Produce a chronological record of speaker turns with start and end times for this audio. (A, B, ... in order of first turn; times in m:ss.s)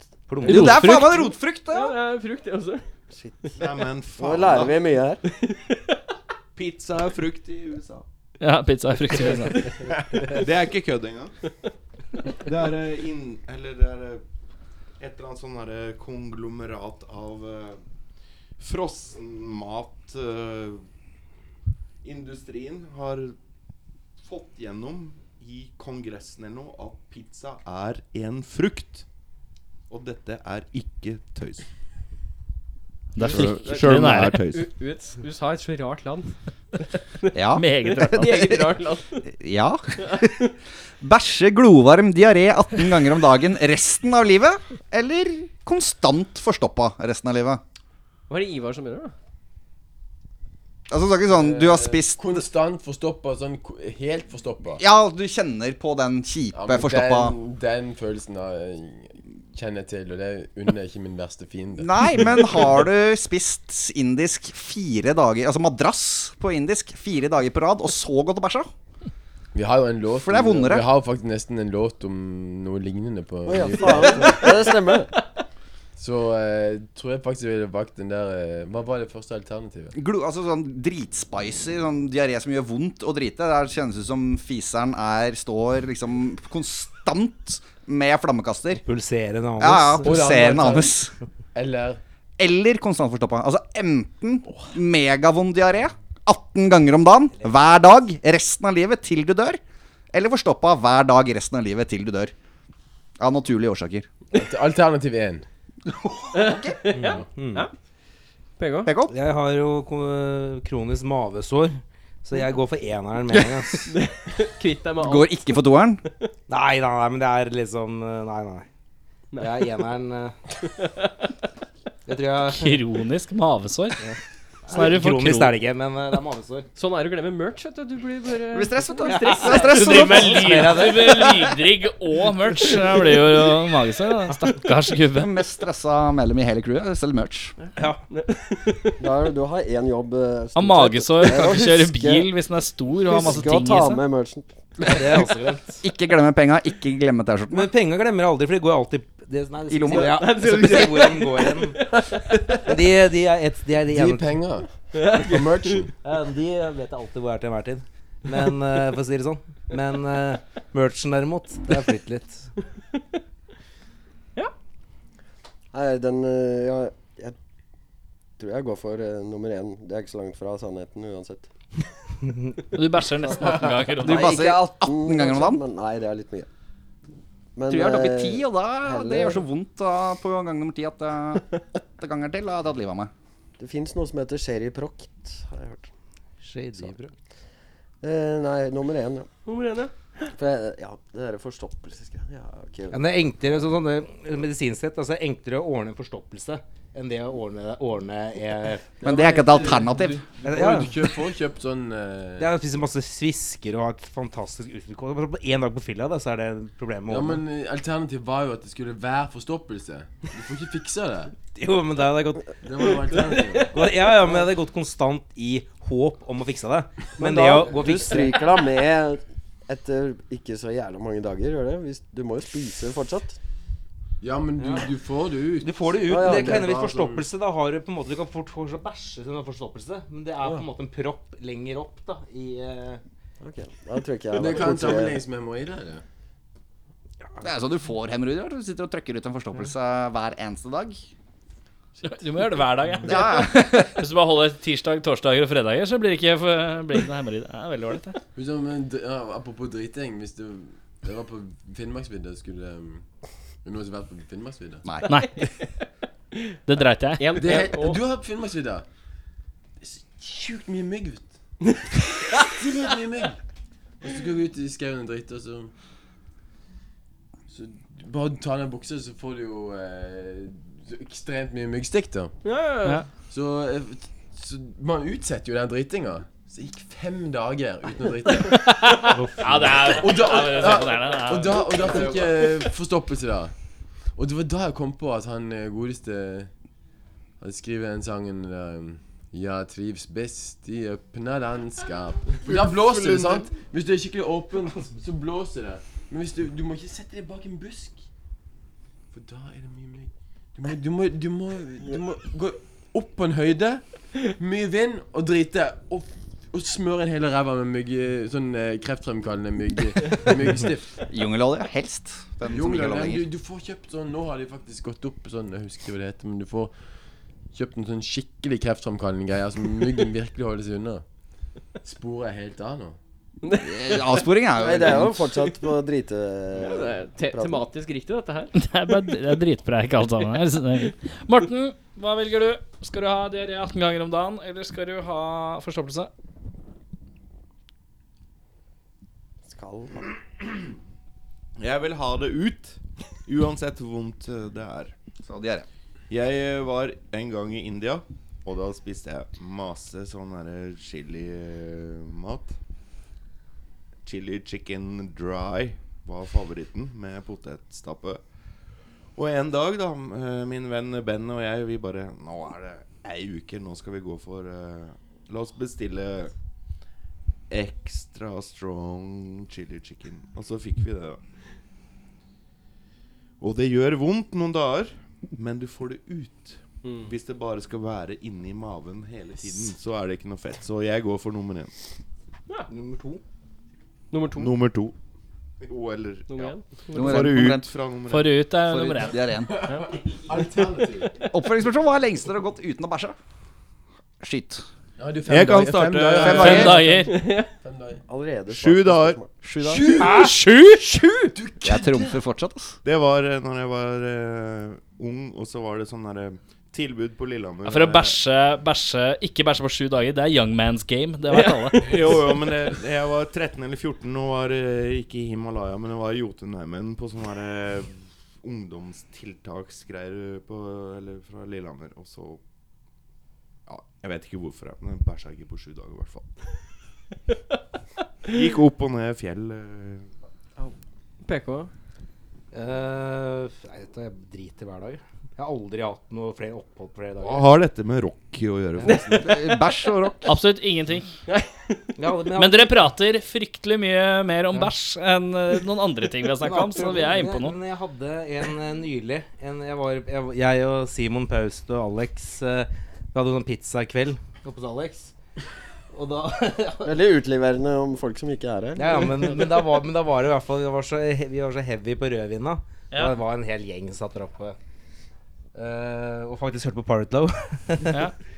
0:00.3-0:00.9 A
0:00.4-0:02.0 B
0:00.5-0:01.2 C
0:01.7-0:02.8 D
0:03.2-0:03.5 E
0:03.6-0:04.8 F
0:04.2-0:05.2 E
0:05.4-0:05.8 D
0:06.6-0:08.0 F
0:08.4-0:09.7 C
0:10.1-0:11.3 F
0:12.4-0:14.2 F
0:15.0-0:17.8 F
0:18.6-0:20.8 F
0:22.0-0:23.4 F
0:24.2-0:29.0 F
0:29.9-0:31.7 F
0:33.2-0:34.4 C
0:33.2-0:34.7 F
0:33.3-0:37.3 D
0:37.3-0:38.5 B
0:37.6-0:38.6 C
0:37.8-0:39.3 D
0:39.3-0:40.4 B
0:41.0-0:47.6 B
0:48.3-0:49.1 D
0:50.9-0:52.4 B
0:51.3-0:54.8 G
0:54.8-0:57.4 B
0:56.5-1:02.4 G
1:01.8-1:08.7 B
1:09.5-1:14.7 G
1:10.2-1:10.9 B
1:13.5-1:15.1 E
1:16.0-1:20.0 G
1:19.9-1:28.8 B
1:28.8-1:30.2 A
1:29.6-1:31.1 B
1:30.0-1:31.0 G
1:31.5-1:32.0 G
1:32.4-1:39.6 B
1:40.1-1:42.3 B
1:43.2-1:44.1 B
1:44.3-1:45.5 G
1:46.0-1:46.8 B
1:46.3-1:47.7 D
1:46.9-1:47.7 A
1:48.6-1:48.9 D
1:48.8-1:49.1 B
1:49.1-1:53.9 A
1:53.9-1:55.5 D
1:55.0-1:56.0 B
1:56.5-1:58.7 A
1:59.3-1:59.7 D
1:59.4-2:00.4 A
2:00.8-2:01.1 D
2:02.1-2:02.8 A
2:02.5-2:04.0 C
2:04.7-2:06.7 A
2:04.7-2:05.6 C
2:06.8-2:10.2 D
2:08.5-2:11.1 B
2:09.1-2:11.5 A
2:09.7-2:15.3 C
2:15.1-2:17.6 B
2:17.8-2:18.0 A
2:18.1-2:19.0 D
2:19.0-2:22.3 E
2:20.6-2:24.0 C
2:23.0-2:24.9 E
2:24.8-2:25.8 A
2:25.8-2:27.7 B
2:27.5-2:32.0 A
2:29.7-2:30.4 B
2:29.9-2:32.4 D
2:32.6-2:34.4 A
2:33.9-2:35.9 G
2:34.9-2:35.8 D
2:36.0-2:42.5 A
2:45.7-2:47.4 E
2:48.4-2:51.5 E
2:52.7-2:54.3 C
2:54.0-2:55.6 B
2:54.0-2:56.5 E
2:57.6-2:59.4 E
2:57.7-3:03.1 B
3:03.6-3:05.9 E
3:06.4-3:07.1 A
3:08.0-3:09.3 E
3:09.5-3:10.3 D
3:10.3-3:13.0 E
3:12.9-3:18.9 A
3:19.0-3:22.5 G
3:19.0-3:20.2 B
3:20.4-3:21.2 A
3:22.4-3:27.4 A
3:27.1-3:31.4 G
3:31.5-3:32.9 A
3:32.6-3:33.8 G
3:33.6-3:38.5 A
3:37.2-3:43.4 E
3:44.2-3:47.2 G
3:44.6-3:44.9 A
3:45.6-3:53.0 A
3:46.0-3:46.9 E
3:53.4-3:55.2 E
3:54.3-3:56.0 G
3:57.4-4:01.0 B
4:02.0-4:08.2 C
4:03.0-4:03.9 B
4:08.4-4:13.1 G
4:13.6-4:14.9 G
4:14.8-4:15.2 B
4:15.1-4:15.5 C
4:15.2-4:15.5 D
4:16.7-4:17.7 C
4:17.2-4:18.0 D
4:17.4-4:18.9 G
4:19.8-4:21.4 G
4:22.4-4:23.4 G
4:24.0-4:25.7 G
4:27.5-4:32.4 G
4:32.4-4:33.0 D
4:33.3-4:38.7 G
4:38.5-4:42.5 C
4:39.1-4:40.0 A
4:39.9-4:43.6 G
4:44.1-4:46.5 G
4:47.4-4:58.0 G
4:52.4-4:53.4 F
4:59.1-5:11.0 G
5:11.1-5:13.2 B
5:12.4-5:16.8 G
5:17.5-5:21.0 G
5:21.8-5:23.0 G
5:23.4-5:24.0 D
5:23.5-5:25.4 B
5:24.5-5:27.6 E
5:26.6-5:28.5 D
5:28.6-5:36.1 C
5:39.5-5:40.1 E
5:41.6-5:44.9 F
5:45.2-5:45.7 B
5:46.1-5:52.6 F
5:54.0-5:58.2 F
5:59.2-6:06.3 F
6:07.5-6:11.2 F
6:13.4-6:21.7 F
6:16.8-6:17.1 D
6:22.7-6:23.2 A
6:24.1-6:24.5 D
6:24.3-6:24.9 F
6:25.6-6:28.3 F
6:26.3-6:27.3 D
6:26.9-6:27.7 B
6:28.1-6:29.2 C
6:28.7-6:29.5 B
6:29.5-6:31.2 G
6:31.3-6:33.2 B
6:34.2-6:34.6 B
6:35.0-6:37.1 G
6:35.3-6:36.8 F
6:35.8-6:36.8 B
6:36.4-6:37.2 C
6:37.0-6:37.5 D
6:37.6-6:38.0 G
6:38.1-6:39.3 E
6:38.5-6:39.8 F
6:39.6-6:39.9 B
6:39.6-6:40.4 G
6:41.3-6:42.2 G
6:41.6-6:42.8 B
6:42.8-6:48.2 F
6:47.6-6:52.0 C
6:51.3-6:52.4 D
6:51.8-7:02.4 F
7:03.7-7:06.3 F
7:08.2-7:10.1 F
7:11.2-7:11.7 D
7:12.5-7:17.5 A
7:17.2-7:19.4 F
7:18.8-7:19.3 D
7:19.1-7:20.4 B
7:20.2-7:21.1 C
7:21.3-7:21.9 D
7:22.0-7:22.8 A
7:22.4-7:27.6 C
7:26.4-7:35.1 A
7:35.9-7:37.0 A
7:36.8-7:39.3 E
7:38.8-7:44.6 A
7:42.9-7:43.2 C
7:45.6-7:48.1 A
7:47.9-7:48.1 C